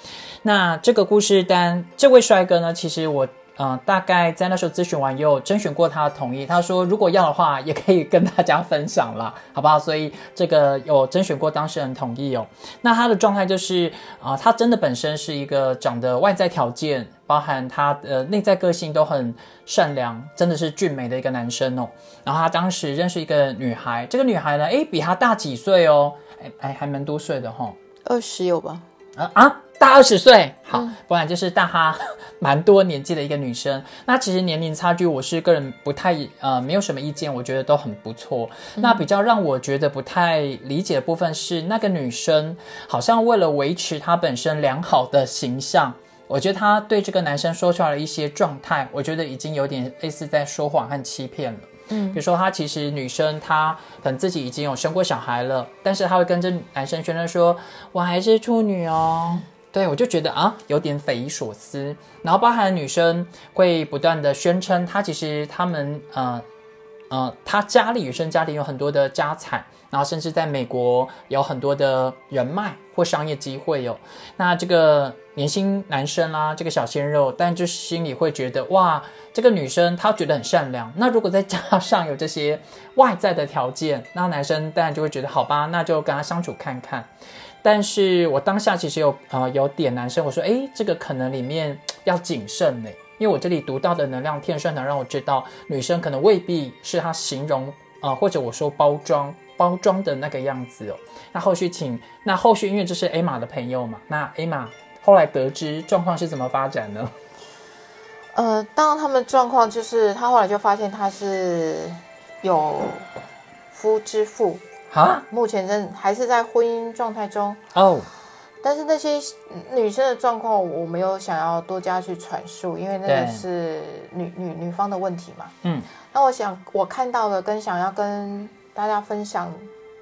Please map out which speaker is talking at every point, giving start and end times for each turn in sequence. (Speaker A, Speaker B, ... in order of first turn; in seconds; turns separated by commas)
Speaker A: 0.4-27.8, Speaker B: 28.1-28.8, Speaker A: 29.2-66.4, Speaker B: 38.8-39.0, Speaker B: 51.9-52.2, Speaker A: 67.1-87.1, Speaker A: 87.6-107.1, Speaker B: 108.3-113.1, Speaker B: 113.7-114.6, Speaker A: 114.9-115.2, Speaker B: 115.3-117.6, Speaker A: 117.7-118.1, Speaker B: 118.6-125.5, Speaker A: 123.0-123.4, Speaker A: 125.6-125.9, Speaker B: 126.1-129.6